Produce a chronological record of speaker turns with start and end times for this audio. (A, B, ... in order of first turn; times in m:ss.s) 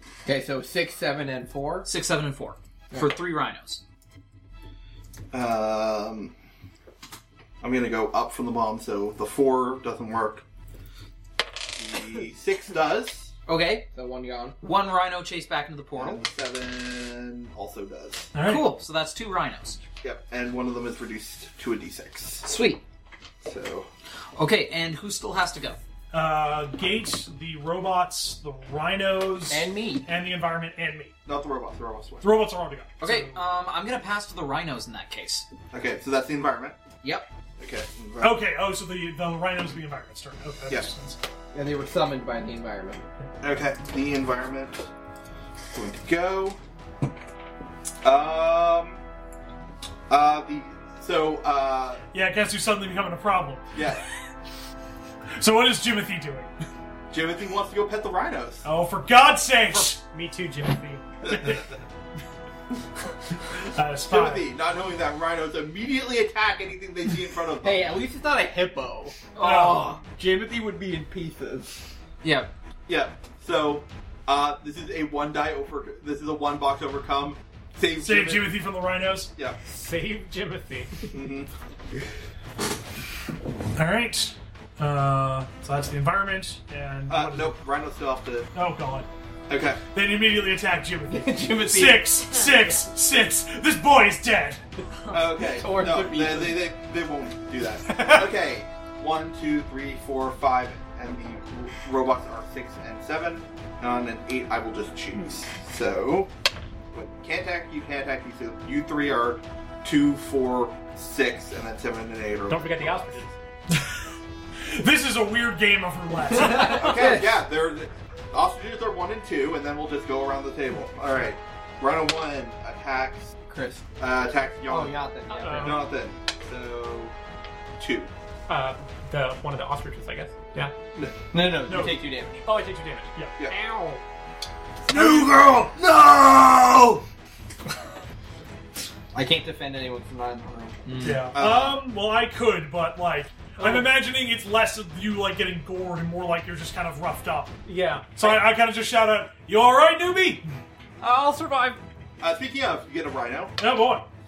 0:00.2-0:01.9 A
0:01.9-0:03.8 B
0:05.3-0:06.3 C
0:07.6-0:10.4 C
0:11.8-0:13.3 C
0:13.5-0:13.9 B
0:13.9-0:14.6 A
0:14.6-0:16.2 B
0:16.0-0:18.3 C
0:18.3-0:18.7 D
0:18.4-0:19.8 B
0:20.0-0:22.5 C
0:22.4-0:22.8 B
0:23.4-0:23.9 C
0:24.4-0:25.8 B
0:26.1-0:31.1 D
0:29.5-0:30.1 A
0:31.3-0:32.4 C
0:32.2-0:33.4 D
0:33.0-0:35.5 B
0:35.7-0:36.8 C
0:37.6-0:38.4 C
0:38.2-0:41.2 D
0:41.5-0:43.1 A
0:43.4-0:44.9 C
0:45.7-0:46.6 C
0:48.0-0:49.0 C
0:50.1-0:52.0 C
0:52.1-0:53.7 D
0:53.8-0:54.0 C
0:55.4-0:56.5 D
0:57.1-0:58.7 C
0:58.6-1:00.0 D
0:59.7-1:01.0 E
1:01.2-1:01.6 C
1:01.3-1:01.6 D
1:03.7-1:04.5 D
1:04.1-1:07.9 C
1:07.6-1:09.2 A
1:09.4-1:10.0 B
1:09.4-1:10.0 D
1:10.0-1:11.8 A
1:12.2-1:12.5 B
1:12.9-1:18.6 C
1:18.0-1:19.3 D
1:19.6-1:21.0 E
1:21.1-1:21.5 C
1:23.8-1:27.6 D
1:27.1-1:28.5 C
1:28.5-1:29.1 D
1:29.5-1:29.8 C
1:29.9-1:34.6 D
1:31.1-1:32.2 A
1:35.1-1:46.3 C
1:35.2-1:36.7 A
1:37.9-1:38.2 D
1:46.9-1:53.1 C
1:52.5-1:53.4 E
1:53.7-1:54.1 D
1:54.7-1:57.0 D
1:56.5-2:03.3 C
1:56.7-1:57.1 A
2:03.5-2:03.9 A
2:04.0-2:05.0 C
2:04.7-2:05.8 A
2:05.3-2:05.9 E
2:05.5-2:07.1 C
2:07.8-2:08.1 C
2:08.5-2:10.7 E
2:11.3-2:12.4 A
2:11.6-2:12.1 D
2:12.4-2:14.0 E
2:14.8-2:17.0 C
2:14.9-2:15.4 D
2:19.1-2:20.9 A
2:20.9-2:21.3 B
2:21.0-2:27.6 D
2:21.3-2:21.9 C
2:23.6-2:23.9 E
2:27.6-2:28.5 E
2:28.1-2:30.5 D
2:31.0-2:31.8 E
2:32.2-2:33.6 C
2:33.6-2:34.1 D